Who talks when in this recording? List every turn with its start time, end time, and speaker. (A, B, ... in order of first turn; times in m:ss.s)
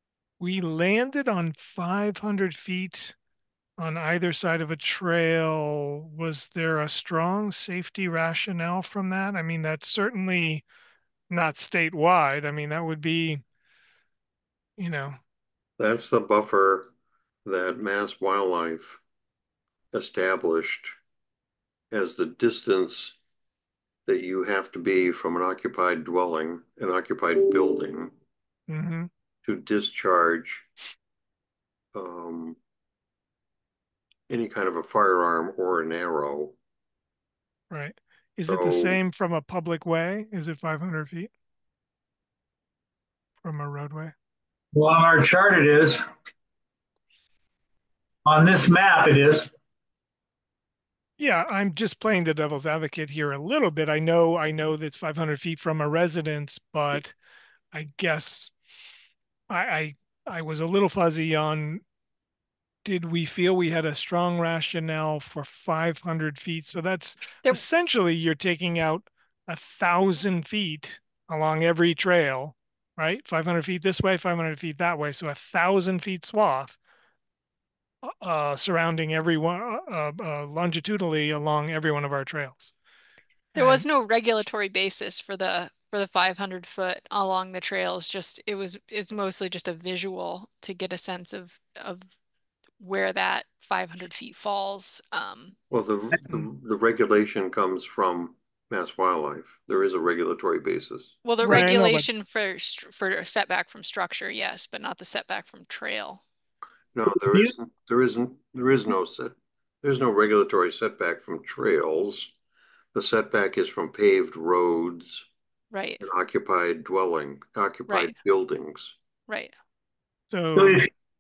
0:00.4-0:03.1 A
0:03.8-0:10.6 A
0:11.3-0:13.4 A
0:14.8-0:15.2 A
0:15.8-0:16.9 B
0:17.4-0:19.0 B
0:19.9-0:20.9 B
0:21.9-0:23.2 B
0:24.0-0:28.1 B
0:28.7-0:29.1 A
0:29.4-0:30.7 B
0:31.9-0:32.6 B
0:34.3-0:36.6 B
0:37.7-0:41.3 A
0:38.4-0:39.0 B
0:43.4-0:44.1 A
0:44.7-0:46.0 C
0:48.2-0:49.5 C
0:51.2-0:57.1 A
0:57.7-0:58.5 A
0:59.5-1:01.8 A
1:02.8-1:16.8 A
1:18.0-1:22.7 A
1:23.5-1:23.8 A
1:23.6-1:32.0 D
1:32.8-1:35.6 D
1:35.7-1:41.1 B
1:41.2-1:46.2 D
1:41.4-1:42.1 A
1:46.9-1:52.3 B
1:52.9-1:55.3 B
1:55.7-1:56.0 D
1:56.0-1:58.9 B
1:59.3-1:59.5 D
2:00.3-2:00.9 A
2:00.6-2:00.9 C